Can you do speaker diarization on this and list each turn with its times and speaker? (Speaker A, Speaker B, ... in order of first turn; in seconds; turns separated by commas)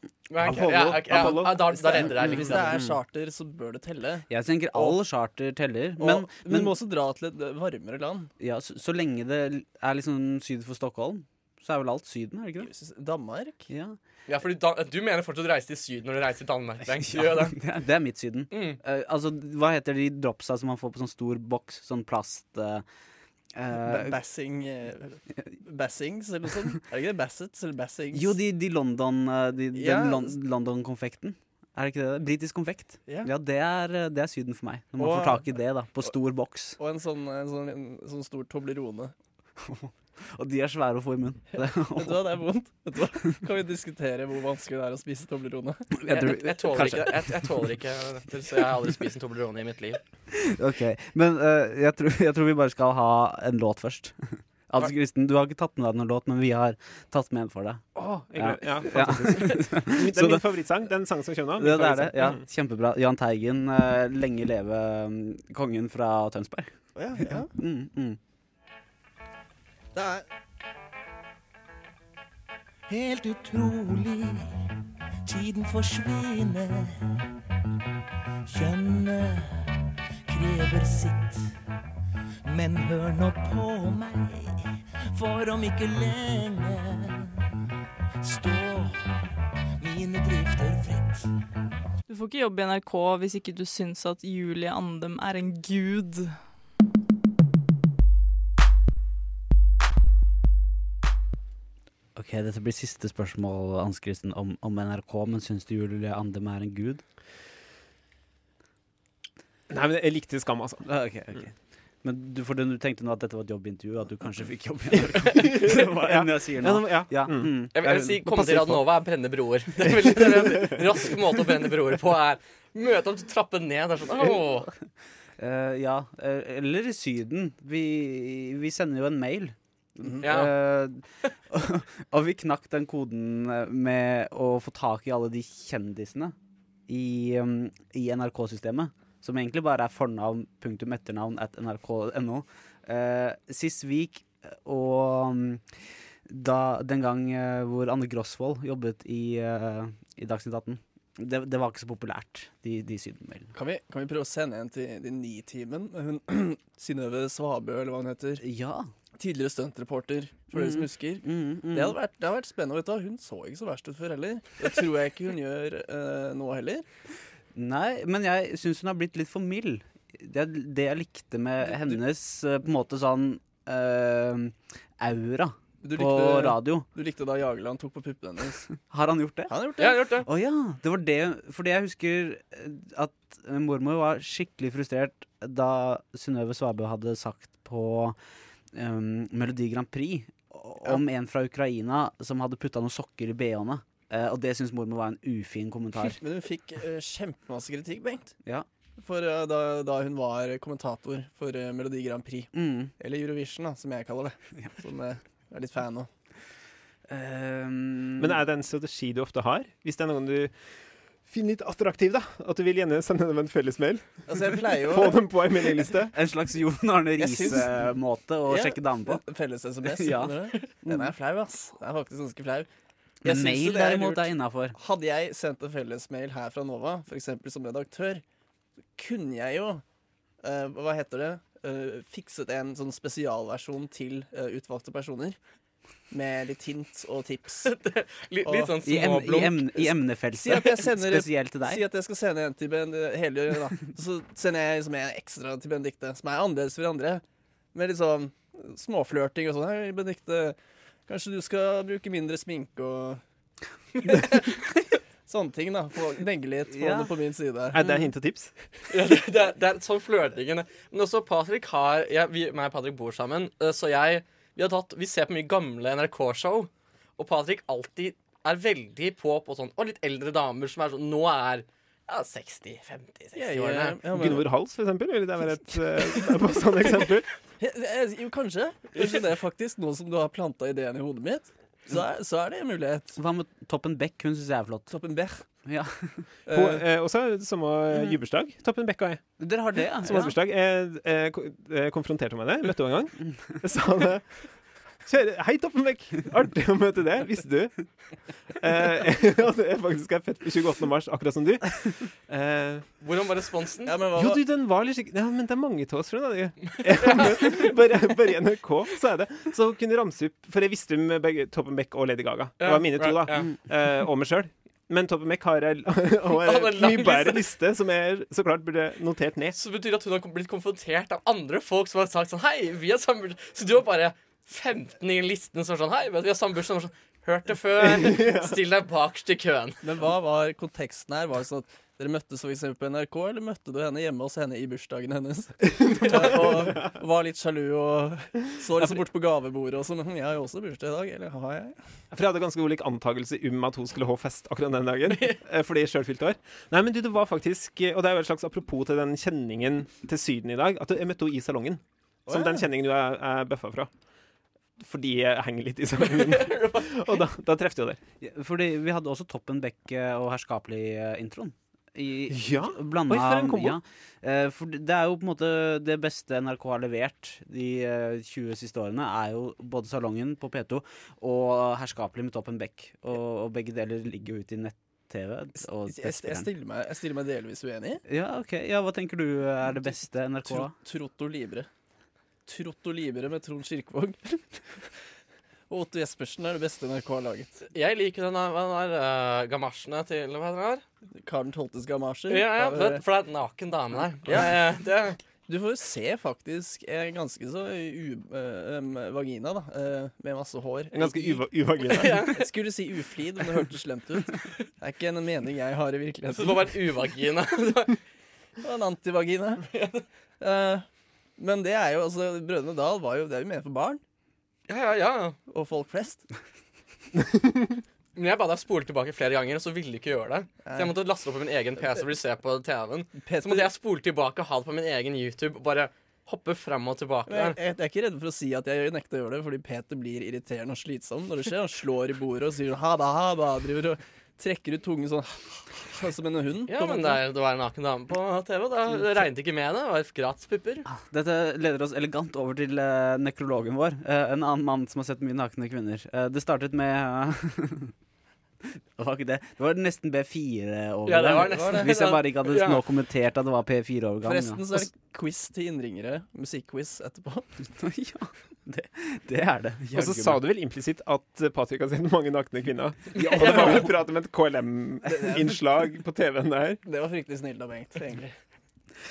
Speaker A: 0.3-2.7, Speaker B: 0.4-1.7, Speaker C: 1.8-5.0, Speaker D: 2.0-3.0, Speaker D: 4.3-6.7, Speaker C: 6.0-8.3, Speaker D: 8.4-12.7, Speaker C: 12.6-13.7, Speaker D: 13.7-14.0, Speaker A: 14.3-17.6, Speaker D: 16.9-22.8, Speaker A: 18.5-18.8, Speaker D: 23.5-24.2, Speaker C: 23.8-28.3, Speaker D: 28.1-36.8, Speaker C: 29.7-30.3, Speaker C: 35.0-35.5, Speaker C: 36.8-39.1, Speaker D: 39.6-42.3, Speaker C: 41.9-45.9, Speaker D: 46.0-47.3, Speaker A: 46.1-50.0, Speaker D: 50.3-54.1, Speaker D: 54.7-60.5, Speaker B: 58.0-62.4, Speaker D: 61.6-68.2, Speaker C: 67.0-67.5, Speaker C: 69.9-70.2, Speaker E: 72.9-74.5, Speaker E: 75.2-77.1, Speaker E: 78.5-79.7, Speaker E: 80.3-81.5, Speaker E: 82.4-84.6, Speaker E: 85.1-87.2, Speaker E: 88.2-89.1, Speaker E: 89.8-91.2, Speaker F: 92.1-96.4, Speaker D: 102.1-107.0, Speaker B: 109.7-110.8, Speaker D: 110.8-118.2, Speaker B: 115.0-117.7, Speaker A: 117.7-124.7, Speaker B: 118.3-118.8, Speaker D: 125.4-136.3, Speaker A: 130.2-130.5, Speaker D: 136.9-145.6, Speaker D: 146.3-153.5, Speaker C: 153.5-158.4, Speaker D: 158.4-158.9, Speaker C: 159.2-166.8, Speaker D: 160.5-162.0, Speaker D: 167.5-176.9, Speaker C: 171.7-172.0, Speaker C: 175.8-178.7, Speaker D: 178.9-179.5, Speaker C: 179.5-180.0, Speaker A: 179.8-180.3, Speaker D: 180.2-188.2, Speaker D: 188.7-196.2, Speaker C: 196.1-198.3, Speaker C: 199.0-206.1, Speaker D: 202.5-202.9, Speaker D: 207.1-208.4, Speaker B: 208.2-210.5, Speaker B: 211.2-216.1, Speaker C: 214.3-215.3, Speaker D: 216.1-219.2, Speaker C: 217.2-217.8, Speaker C: 218.4-222.7, Speaker D: 219.8-221.1, Speaker D: 223.2-224.8, Speaker C: 223.2-228.2, Speaker C: 229.0-229.8, Speaker C: 230.4-235.4, Speaker C: 236.1-237.7, Speaker A: 237.6-239.8, Speaker C: 238.4-238.8, Speaker D: 238.8-241.8, Speaker C: 240.4-247.2, Speaker C: 247.7-250.6, Speaker C: 251.1-253.2, Speaker C: 254.0-254.5, Speaker C: 255.2-257.8, Speaker D: 256.7-257.1, Speaker B: 257.7-258.5, Speaker A: 258.9-274.0, Speaker C: 273.3-274.5, Speaker B: 274.1-277.3, Speaker C: 277.6-283.1, Speaker D: 283.1-284.9, Speaker C: 284.9-285.4, Speaker D: 285.6-286.2, Speaker C: 286.5-286.8, Speaker B: 286.5-289.2, Speaker D: 289.4-290.3, Speaker B: 290.0-294.2, Speaker B: 295.0-297.7, Speaker B: 298.6-302.9, Speaker A: 303.0-303.9, Speaker C: 303.9-304.4, Speaker B: 304.1-319.6, Speaker A: 306.8-307.7, Speaker A: 312.6-313.5, Speaker A: 316.3-317.4, Speaker A: 319.5-329.8, Speaker B: 327.8-328.6, Speaker C: 329.8-341.8, Speaker B: 335.7-336.9, Speaker A: 336.1-336.5, Speaker B: 342.1-353.9, Speaker A: 345.1-345.4, Speaker C: 352.3-352.6, Speaker B: 354.8-358.0, Speaker A: 356.0-357.2, Speaker D: 358.2-376.5, Speaker B: 362.3-363.8, Speaker C: 375.9-378.0, Speaker D: 378.1-380.7, Speaker C: 380.4-381.7, Speaker C: 382.4-384.6, Speaker C: 385.7-387.5, Speaker A: 387.7-390.8, Speaker C: 391.2-393.0, Speaker A: 392.3-395.2, Speaker C: 394.3-394.5, Speaker C: 395.5-401.4, Speaker B: 400.9-402.2, Speaker A: 401.8-402.5, Speaker C: 402.2-406.7, Speaker A: 406.3-407.9, Speaker C: 408.6-409.7, Speaker A: 409.7-410.0, Speaker C: 410.4-410.9, Speaker C: 411.4-414.0, Speaker A: 414.7-415.4, Speaker C: 415.5-416.2, Speaker A: 418.1-427.6, Speaker C: 420.6-420.9, Speaker C: 423.2-423.7, Speaker C: 427.3-437.2, Speaker A: 436.7-440.9, Speaker D: 440.9-447.9, Speaker D: 449.0-454.9, Speaker A: 451.1-452.8, Speaker C: 451.3-451.9, Speaker C: 454.2-457.5, Speaker D: 457.8-460.4, Speaker B: 459.9-466.8, Speaker D: 463.2-463.7, Speaker C: 465.1-465.6, Speaker C: 466.8-468.3